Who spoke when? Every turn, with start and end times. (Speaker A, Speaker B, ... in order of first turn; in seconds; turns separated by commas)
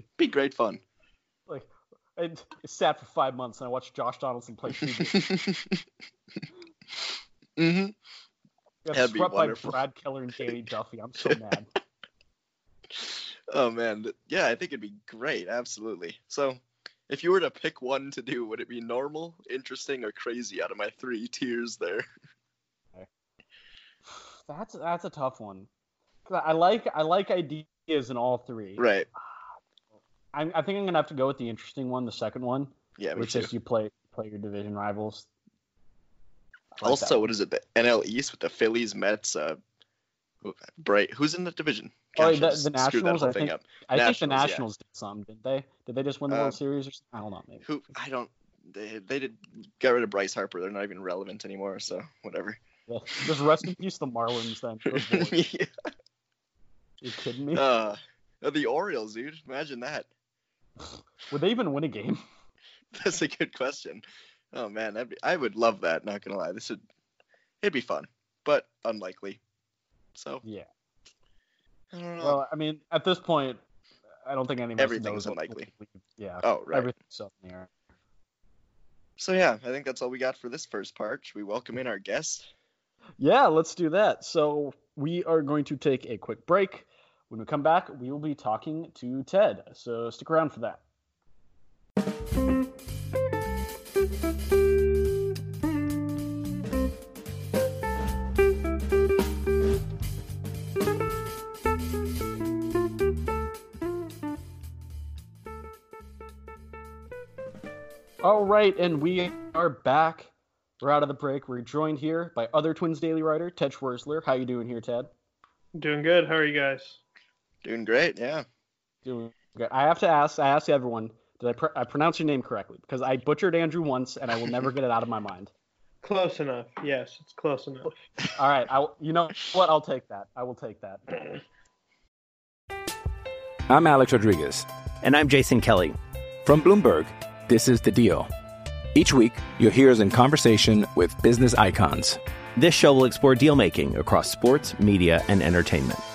Speaker A: 0.2-0.8, Speaker B: 1.5-5.3, Speaker A: 4.8-5.8, Speaker A: 7.6-8.0, Speaker B: 8.8-11.7, Speaker A: 8.9-9.8, Speaker A: 12.9-22.1, Speaker B: 24.1-25.7, Speaker B: 26.3-29.3, Speaker A: 28.8-29.1, Speaker B: 30.3-35.3, Speaker A: 33.0-33.5, Speaker B: 36.8-37.3, Speaker A: 36.8-39.6, Speaker A: 40.4-44.6, Speaker B: 42.2-47.6, Speaker A: 46.3-46.6, Speaker A: 47.6-52.6, Speaker B: 52.9-55.3, Speaker A: 54.9-55.7, Speaker B: 57.0-57.6, Speaker A: 57.5-60.1, Speaker B: 61.3-62.2, Speaker A: 62.9-66.8, Speaker A: 67.6-69.4, Speaker A: 70.1-70.4, Speaker A: 71.9-72.4, Speaker B: 72.2-73.6, Speaker B: 74.2-77.7, Speaker A: 74.8-75.7, Speaker A: 76.4-76.9, Speaker A: 79.2-82.5, Speaker B: 83.2-90.8, Speaker B: 108.2-115.1, Speaker C: 115.8-117.0, Speaker A: 117.6-118.4, Speaker B: 119.0-125.5, Speaker C: 126.0-127.9, Speaker B: 128.3-131.0, Speaker C: 131.1-131.4, Speaker D: 133.7-134.7, Speaker E: 135.0-136.0, Speaker D: 136.4-138.3, Speaker D: 138.9-142.2, Speaker E: 142.6-146.0